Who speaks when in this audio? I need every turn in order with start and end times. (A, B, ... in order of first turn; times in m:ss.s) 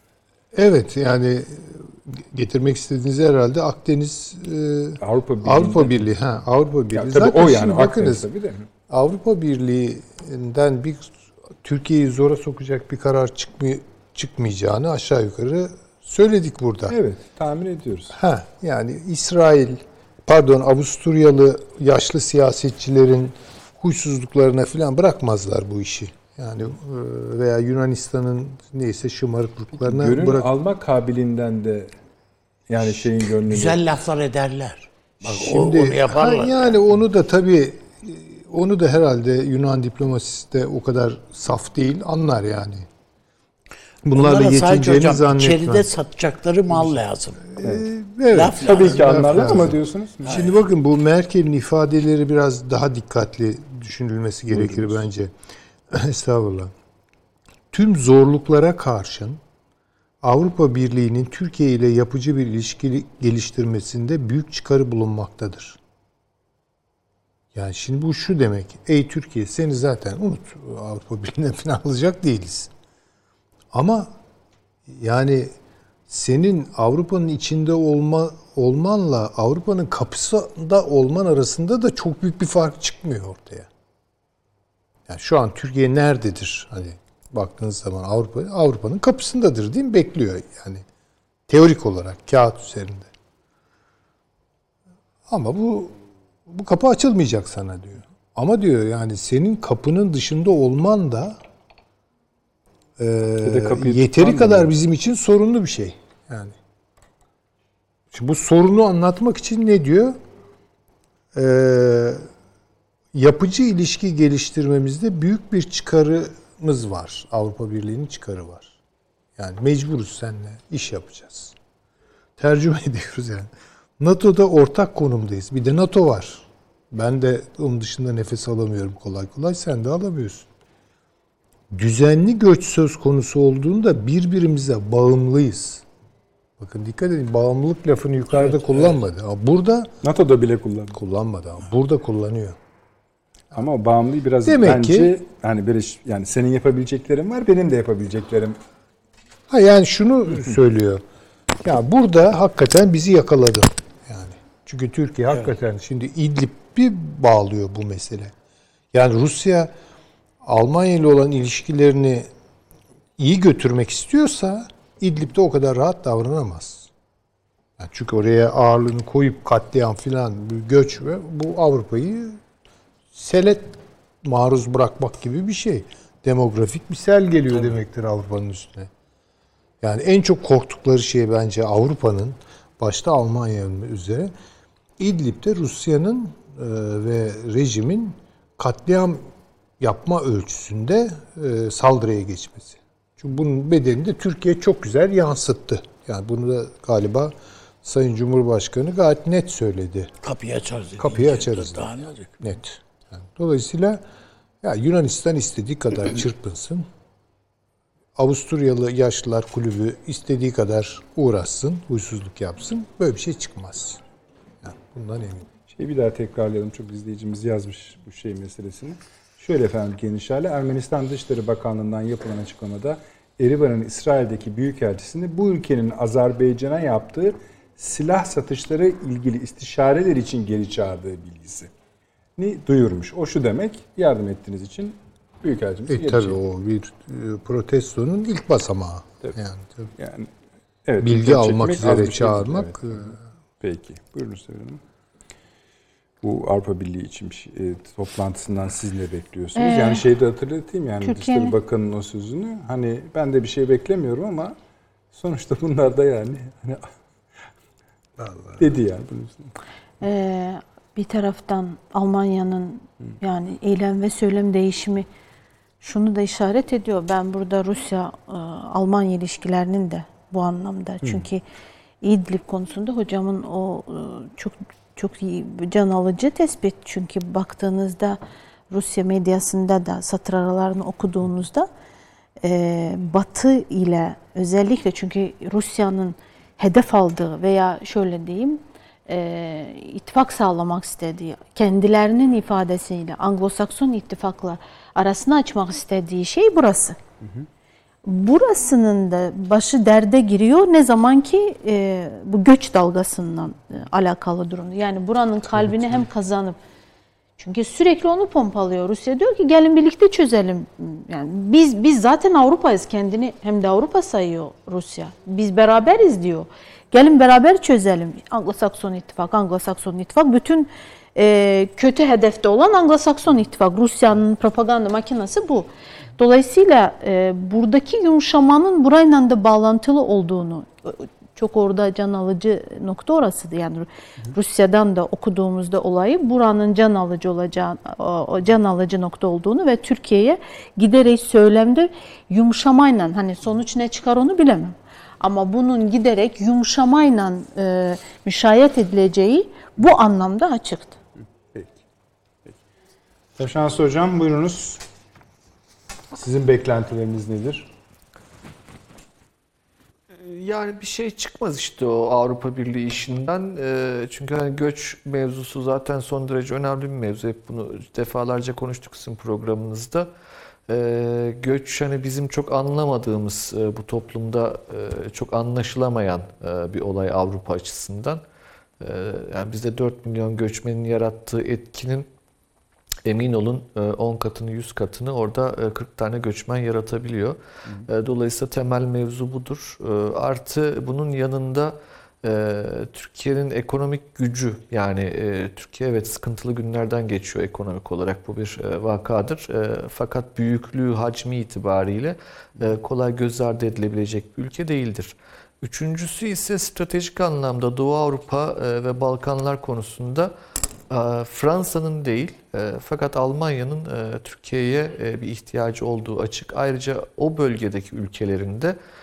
0:00.5-0:08.2 A
0:05.0-0:06.1 B
0:06.9-0:08.7 B
0:08.9-0:17.0 A
0:16.9-0:18.2 B
0:18.1-0:30.5 A
0:29.7-0:31.9 B
0:32.7-0:33.8 B
0:33.5-0:36.8 C
0:35.2-0:42.9 A
0:44.0-0:45.9 A
0:44.1-0:47.5 C
0:47.5-0:55.3 A
0:48.3-0:49.7 C
0:48.6-0:50.4 B
0:50.2-0:50.6 C
0:54.5-0:55.0 B
0:55.9-0:56.7 A
0:57.7-0:59.4 A
1:00.2-1:05.8 A
1:07.5-1:12.7 A
1:13.7-1:14.1 A
1:14.9-1:15.5 A
1:16.1-1:23.7 A
1:25.1-1:30.8 A
1:31.5-1:33.1 A
1:35.3-1:41.4 A
1:43.0-1:46.6 A
1:43.4-1:44.7 B
1:48.1-1:50.2 A
1:51.3-1:52.3 A
1:53.1-1:58.7 A
1:59.4-2:01.5 A
2:02.4-2:10.5 A
2:11.7-2:15.8 A
2:16.6-2:19.9 A
2:18.3-2:19.0 B
2:20.0-2:21.0 B
2:20.9-2:22.6 A
2:23.5-2:28.6 B
2:24.4-2:25.1 A
2:29.5-2:31.0 A
2:31.6-2:38.3 A
2:38.9-2:39.7 A
2:40.4-2:42.3 A
2:43.2-2:46.9 A
2:47.8-2:52.4 A
2:53.1-2:58.9 A
2:59.8-3:04.3 A
3:05.0-3:09.3 A
3:09.8-3:20.1 A
3:20.2-3:22.3 C
3:21.0-3:24.0 A
3:24.6-3:26.8 A
3:28.2-3:34.0 A
3:34.6-3:35.5 A
3:35.7-3:51.7 B
3:52.4-3:56.4 B
3:55.9-3:59.9 A
4:00.0-4:00.3 B
4:00.8-4:04.8 B
4:01.0-4:03.2 A
4:06.2-4:14.5 B
4:09.5-4:10.0 D
4:11.0-4:11.5 D
4:15.1-4:17.0 B
4:18.2-4:18.6 A
4:18.6-4:19.5 B
4:20.0-4:25.0 D
4:25.8-4:31.4 D
4:32.0-4:41.7 D
4:42.4-4:57.0 D
4:58.0-5:06.6 D
5:07.4-5:51.0 D
5:51.5-5:51.8 B
5:53.4-5:54.8 B
5:56.1-5:57.7 B
6:00.1-6:10.1 E
6:10.7-6:18.2 E
6:18.8-6:22.1 E
6:23.0-6:50.3 E
6:50.9-6:58.8 E